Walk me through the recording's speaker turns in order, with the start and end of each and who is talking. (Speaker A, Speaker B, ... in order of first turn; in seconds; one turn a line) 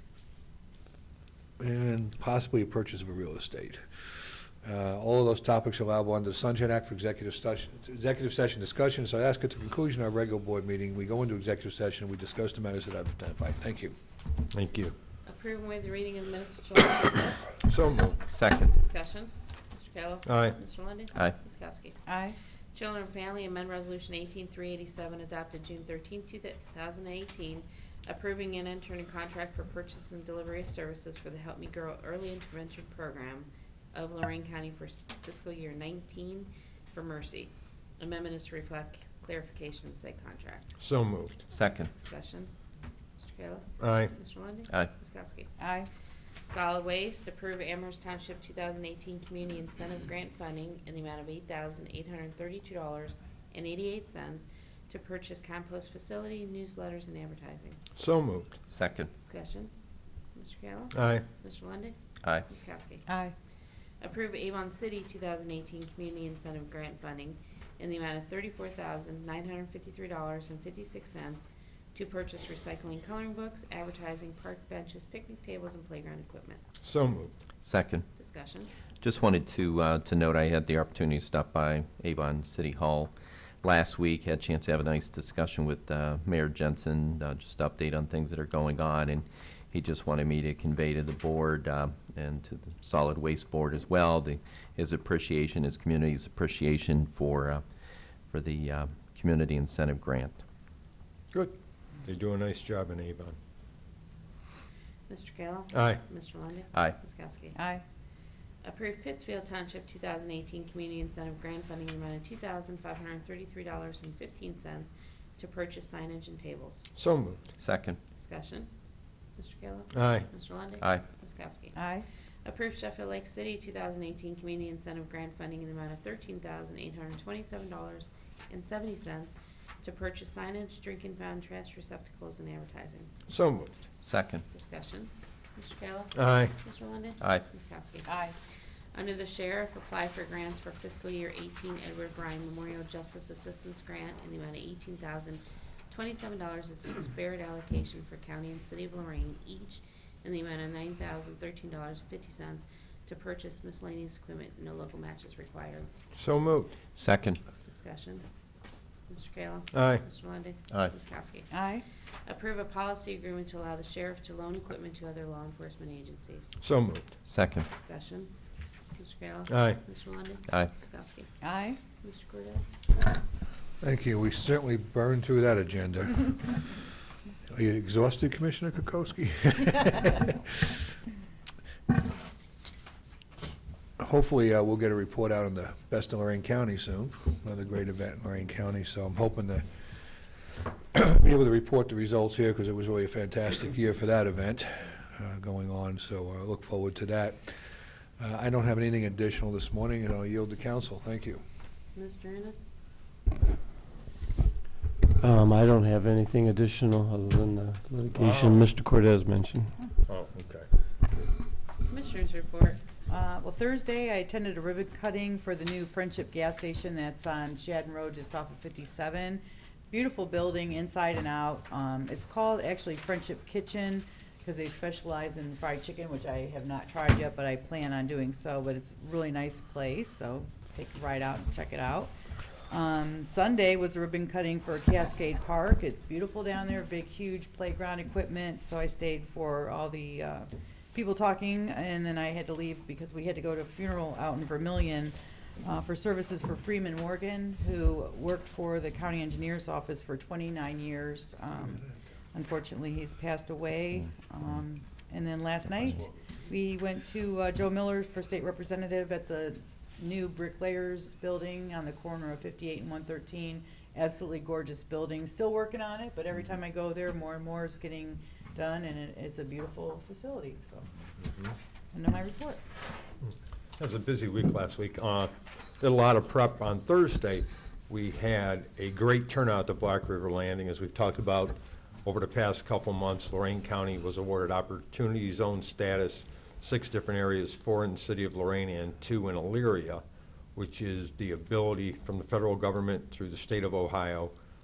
Speaker A: 1.6-13.9
Speaker B: 14.5-14.9
Speaker C: 15.2-17.6
Speaker B: 17.6-18.2
Speaker D: 18.3-18.6
Speaker C: 18.4-22.0
Speaker B: 20.2-20.6
Speaker C: 22.7-40.7
Speaker B: 40.8-41.4
Speaker C: 41.5-42.5
Speaker D: 41.6-41.9
Speaker C: 43.2-45.5
Speaker B: 43.8-44.1
Speaker C: 46.4-57.8
Speaker B: 58.0-58.6
Speaker D: 58.7-59.1
Speaker C: 59.1-59.7
Speaker C: 60.3-63.1
Speaker B: 60.9-61.2
Speaker C: 64.0-76.6
Speaker B: 76.8-77.4
Speaker D: 77.6-78.1
Speaker C: 78.2-78.7
Speaker D: 79.0-97.6
Speaker D: 98.3-100.4
Speaker B: 101.3-103.3
Speaker C: 105.1-107.5
Speaker B: 105.7-106.0
Speaker C: 108.6-116.8
Speaker B: 117.0-117.5
Speaker D: 117.6-118.0
Speaker C: 118.1-118.7
Speaker C: 119.3-121.8
Speaker B: 119.9-120.3
Speaker C: 122.4-133.1
Speaker B: 133.3-133.7
Speaker D: 134.0-134.4
Speaker C: 134.5-138.2
Speaker B: 136.1-136.5
Speaker C: 138.9-155.9
Speaker B: 156.1-156.7
Speaker D: 156.9-157.4
Speaker C: 157.6-158.2
Speaker C: 159.1-161.5
Speaker B: 159.7-160.0
Speaker C: 162.2-166.5
Speaker B: 166.6-167.1
Speaker D: 167.2-167.7
Speaker C: 167.7-168.3
Speaker C: 168.9-171.3
Speaker B: 169.5-169.8
Speaker C: 171.9-172.8
Speaker A: 173.8-176.6
Speaker A: 177.5-180.3
Speaker A: 184.0-189.7
Speaker A: 190.9-197.6
Speaker A: 198.2-201.4
Speaker C: 201.9-202.7
Speaker E: 205.2-209.7
Speaker B: 208.1-208.7
Speaker B: 210.0-210.7
Speaker C: 211.9-212.8
Speaker F: 213.1-232.1
Speaker F: 232.7-245.1
Speaker F: 245.7-251.8
Speaker F: 252.3-270.8
Speaker F: 271.9-272.6
Speaker B: 273.8-290.0
Speaker B: 290.6-294.3